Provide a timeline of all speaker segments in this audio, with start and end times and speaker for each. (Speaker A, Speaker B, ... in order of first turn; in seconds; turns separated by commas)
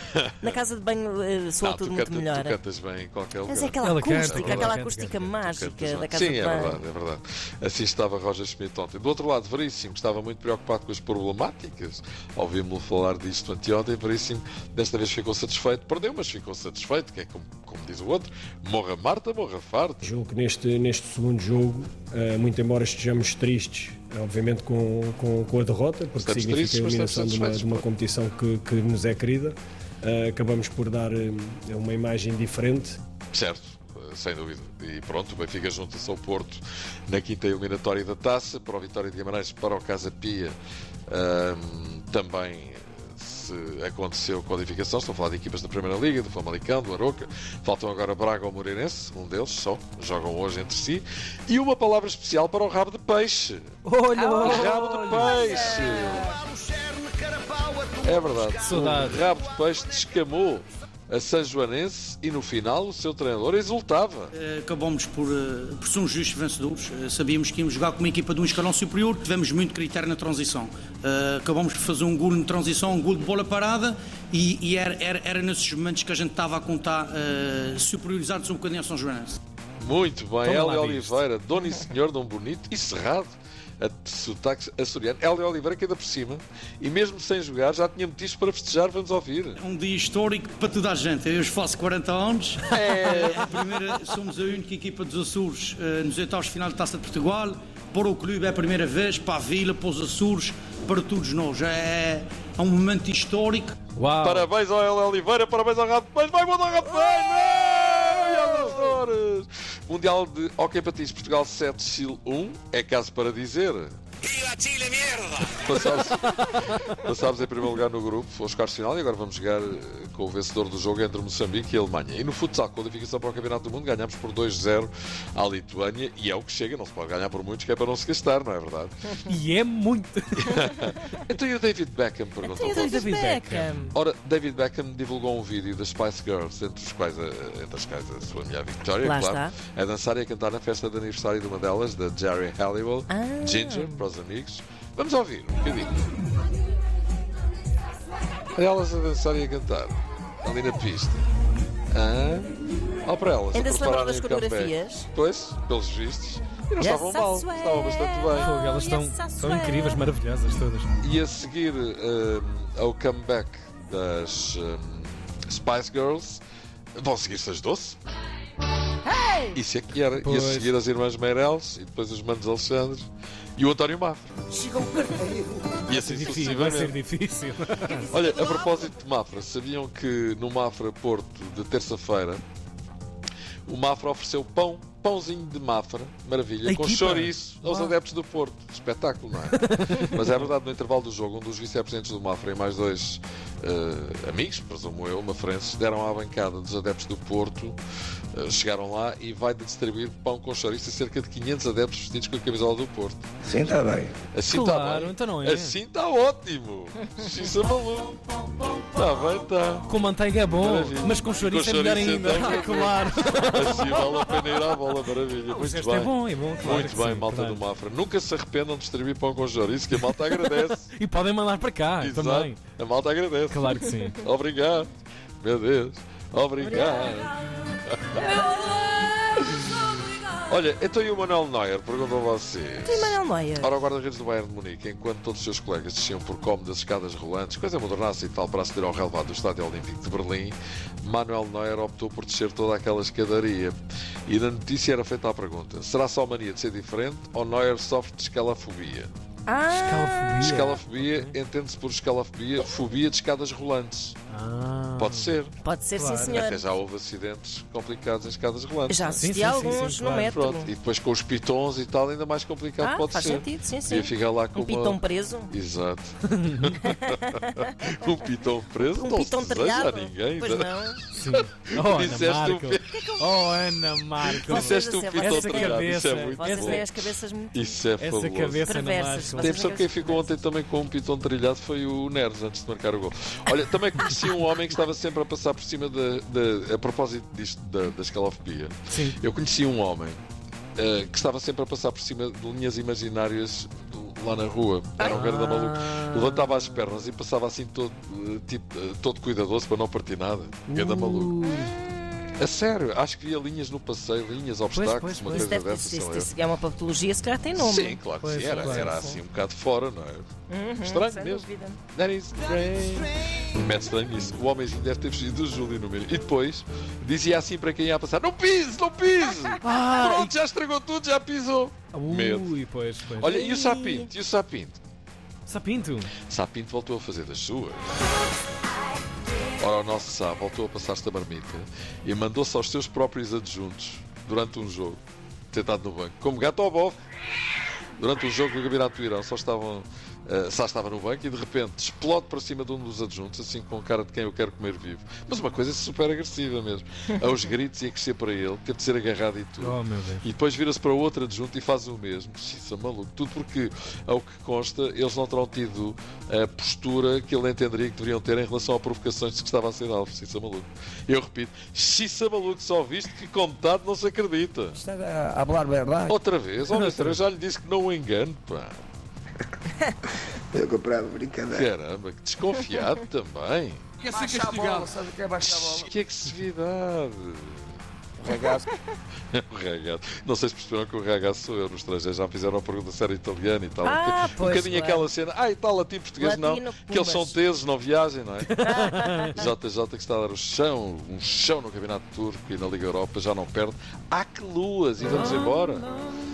Speaker A: 0.1-0.5, Speaker B: 0.4-2.6, Speaker A: 1.6-4.7, Speaker B: 3.5-6.8, Speaker C: 3.8-5.3, Speaker A: 5.4-20.0, Speaker D: 20.0-33.0, Speaker A: 26.2-27.9, Speaker A: 33.3-40.6, Speaker A: 41.1-53.7, Speaker C: 53.9-55.5, Speaker B: 54.1-56.4, Speaker A: 54.4-56.4, Speaker A: 58.0-64.3, Speaker C: 58.6-59.2, Speaker E: 64.4-79.4, Speaker A: 79.8-89.6, Speaker C: 80.4-81.2, Speaker E: 89.6-103.8, Speaker A: 92.7-93.7, Speaker C: 104.0-104.5, Speaker A: 104.2-114.0, Speaker A: 115.5-129.2, Speaker C: 129.3-130.9, Speaker A: 130.4-133.1, Speaker B: 132.5-133.9, Speaker C: 132.6-133.7, Speaker A: 133.9-146.0, Speaker B: 139.0-139.6, Speaker B: 143.1-144.1, Speaker A: 148.6-151.3, Speaker A: 151.9-152.5, Speaker A: 153.1-158.5, Speaker B: 153.5-155.1, Speaker B: 156.8-160.0, Speaker C: 158.3-160.9, Speaker A: 161.0-166.4, Speaker A: 167.0-168.0, Speaker B: 169.1-169.5, Speaker A: 169.5-174.3, Speaker C: 170.2-170.8, Speaker A: 175.8-177.0, Speaker C: 175.9-178.3, Speaker A: 178.1-182.4, Speaker A: 183.7-197.8, Speaker C: 186.7-187.9, Speaker C: 189.6-190.4, Speaker A: 198.3-203.3, Speaker F: 203.4-204.2, Speaker A: 204.3-209.9, Speaker C: 204.5-205.8, Speaker C: 209.8-214.2, Speaker A: 210.6-220.9, Speaker C: 215.5-217.6, Speaker C: 219.9-222.6, Speaker A: 222.0-224.9, Speaker C: 223.5-224.2, Speaker A: 225.4-228.6, Speaker B: 226.8-227.1, Speaker A: 229.4-229.7, Speaker A: 230.5-243.8, Speaker B: 232.8-233.8, Speaker A: 244.3-249.1, Speaker B: 249.5-250.6, Speaker C: 249.7-251.4, Speaker A: 250.4-254.2, Speaker C: 254.3-255.4, Speaker A: 255.0-255.5, Speaker B: 255.6-256.6, Speaker C: 255.9-256.4, Speaker A: 256.3-259.6, Speaker B: 258.9-260.7, Speaker C: 259.1-260.3, Speaker A: 260.2-265.0, Speaker B: 262.8-265.5, Speaker A: 265.5-270.8, Speaker C: 266.3-266.8, Speaker B: 266.8-267.6, Speaker B: 268.8-271.0, Speaker C: 271.1-276.9, Speaker A: 271.7-273.3, Speaker B: 274.4-277.8, Speaker A: 274.5-276.9, Speaker A: 277.5-278.7, Speaker C: 278.0-279.8, Speaker B: 278.6-280.4, Speaker A: 279.4-290.2, Speaker C: 288.9-289.2, Speaker A: 290.8-301.4, Speaker B: 295.0-295.2, Speaker C: 295.0-296.9, Speaker C: 300.7-301.7, Speaker B: 301.6-302.2, Speaker A: 302.4-306.3, Speaker C: 304.7-305.5, Speaker B: 305.3-308.0, Speaker A: 307.6-310.3, Speaker C: 308.2-309.2, Speaker B: 308.6-309.1, Speaker B: 310.5-311.8, Speaker A: 310.8-322.6, Speaker C: 319.6-320.4, Speaker C: 321.9-323.4, Speaker A: 323.1-324.8, Speaker B: 323.2-324.1, Speaker C: 325.5-326.1, Speaker A: 326.2-328.0, Speaker A: 329.6-335.0, Speaker A: 335.5-337.0, Speaker A: 338.0-364.9, Speaker C: 349.6-350.2, Speaker F: 364.8-366.1, Speaker A: 366.1-368.8, Speaker C: 366.6-367.2, Speaker F: 370.5-371.7, Speaker A: 371.5-373.8, Speaker F: 374.0-375.9, Speaker A: 374.4-377.8, Speaker F: 378.2-378.7, Speaker A: 379.3-388.6, Speaker B: 383.8-385.1, Speaker B: 386.2-387.4, Speaker C: 388.6-389.3, Speaker B: 388.6-389.4, Speaker A: 389.3-395.9